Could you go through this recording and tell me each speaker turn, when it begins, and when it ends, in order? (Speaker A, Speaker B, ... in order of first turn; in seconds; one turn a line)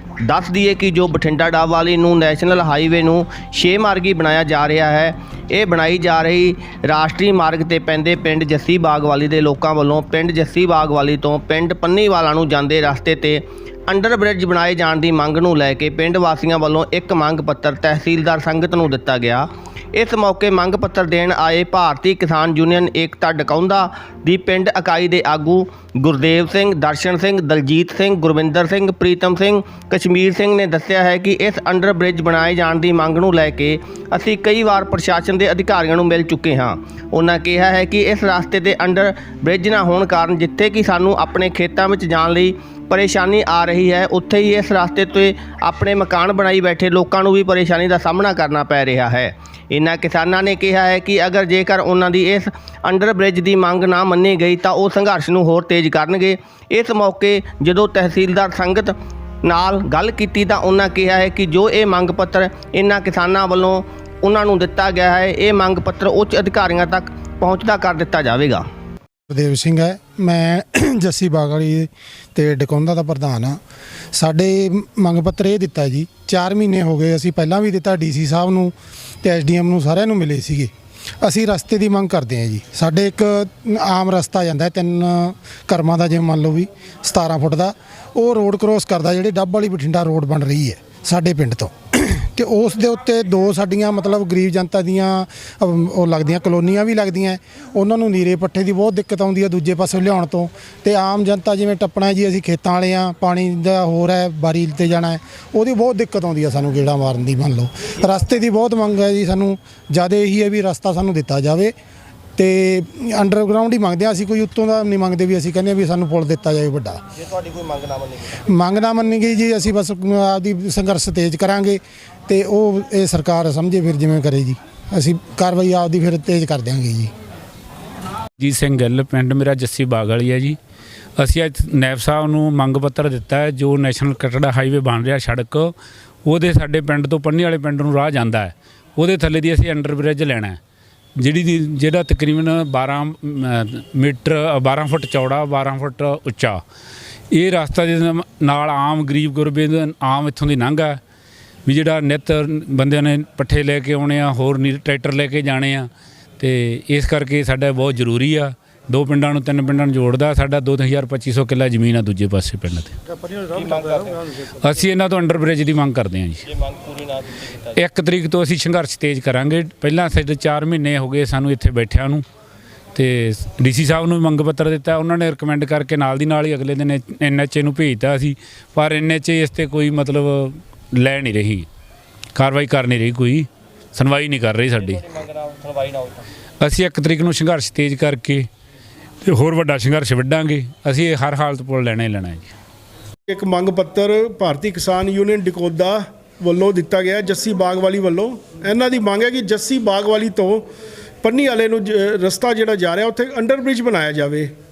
Speaker A: 0.2-68.6
Speaker B: 69.3-73.6
Speaker B: 74.1-111.7
Speaker B: 112.3-117.0
Speaker A: 117.2-118.4
Speaker B: 118.5-127.1
Speaker C: 128.4-130.6
Speaker C: 131.2-135.7
Speaker C: 136.2-140.6
Speaker C: 141.2-146.6
Speaker C: 147.3-151.0
Speaker C: 151.7-163.0
Speaker A: 163.4-164.3
Speaker C: 164.5-166.5
Speaker A: 166.5-167.7
Speaker C: 167.7-172.2
Speaker C: 172.9-181.7
Speaker C: 182.3-185.0
Speaker A: 185.0-186.2
Speaker C: 186.6-188.5
Speaker C: 189.2-192.5
Speaker D: 193.3-200.7
Speaker D: 201.2-204.5